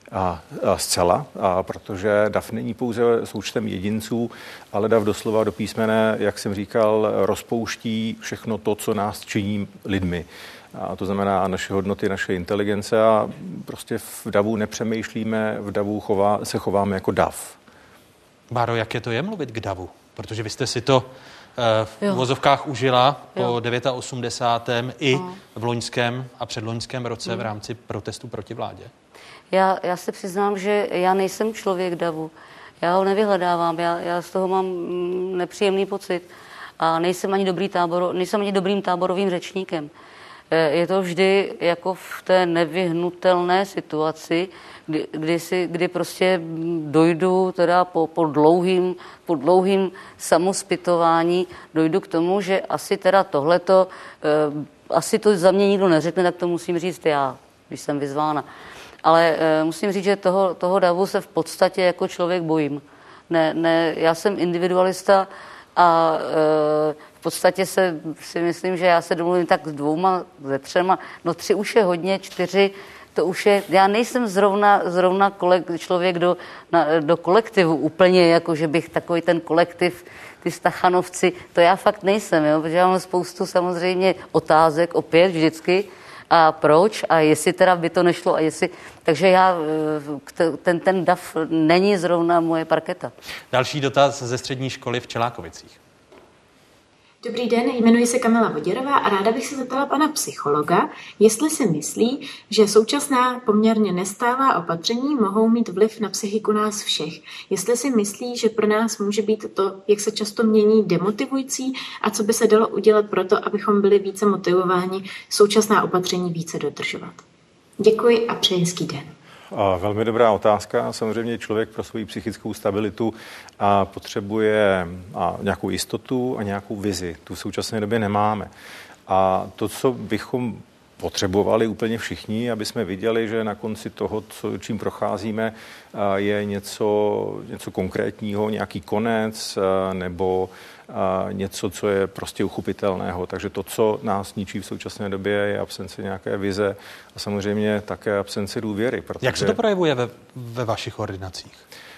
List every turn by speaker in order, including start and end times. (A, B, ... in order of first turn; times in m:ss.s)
0:00.1-0:17.6 A
0:18.5-0:28.9 B
0:29.5-0:36.3 C
0:36.8-0:39.9 C
0:40.5-0:58.4 C
0:59.0-1:33.1 C
1:33.5-1:35.8 B
1:37.2-1:57.2 D
1:57.8-1:59.1 D
1:59.5-2:08.5 A
2:09.1-2:29.6 A
2:29.2-2:31.6 B